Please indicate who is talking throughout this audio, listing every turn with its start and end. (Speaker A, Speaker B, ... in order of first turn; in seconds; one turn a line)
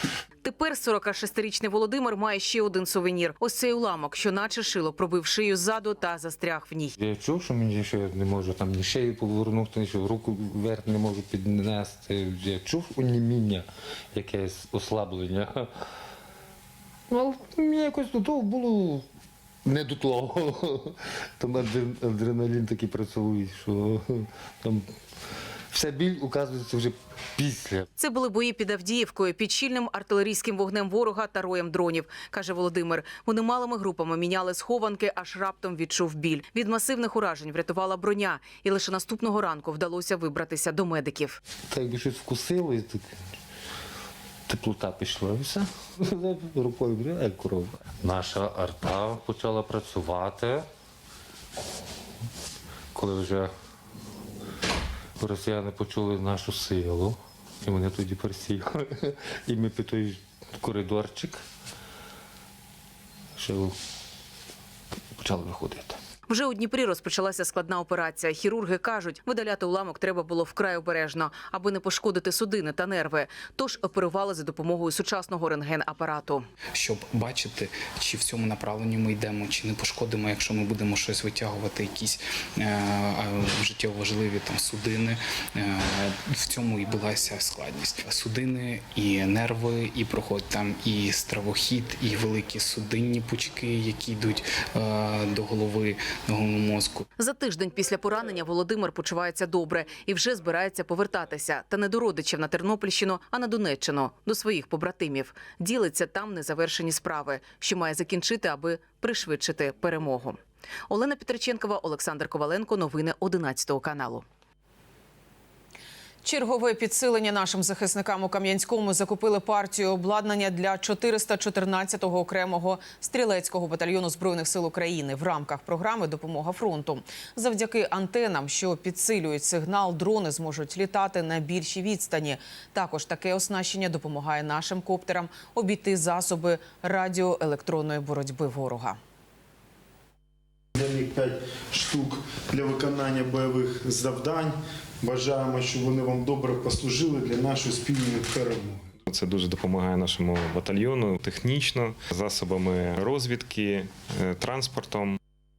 Speaker A: 0.4-6.9
Speaker B: 7.0-15.7
Speaker B: 17.1-19.0
Speaker B: 19.6-24.9
Speaker B: 25.7-27.9
Speaker A: 28.0-41.4
Speaker B: 41.7-43.1
Speaker B: 44.5-50.6
Speaker B: 52.9-53.5
Speaker B: 55.2-61.4
Speaker B: 63.4-63.7
Speaker B: 65.2-66.0
Speaker A: 66.3-76.4
Speaker C: 76.7-97.0
Speaker A: 97.2-114.2
Speaker A: 116.2-139.0
Speaker D: 140.7-148.9
Speaker E: 149.1-155.2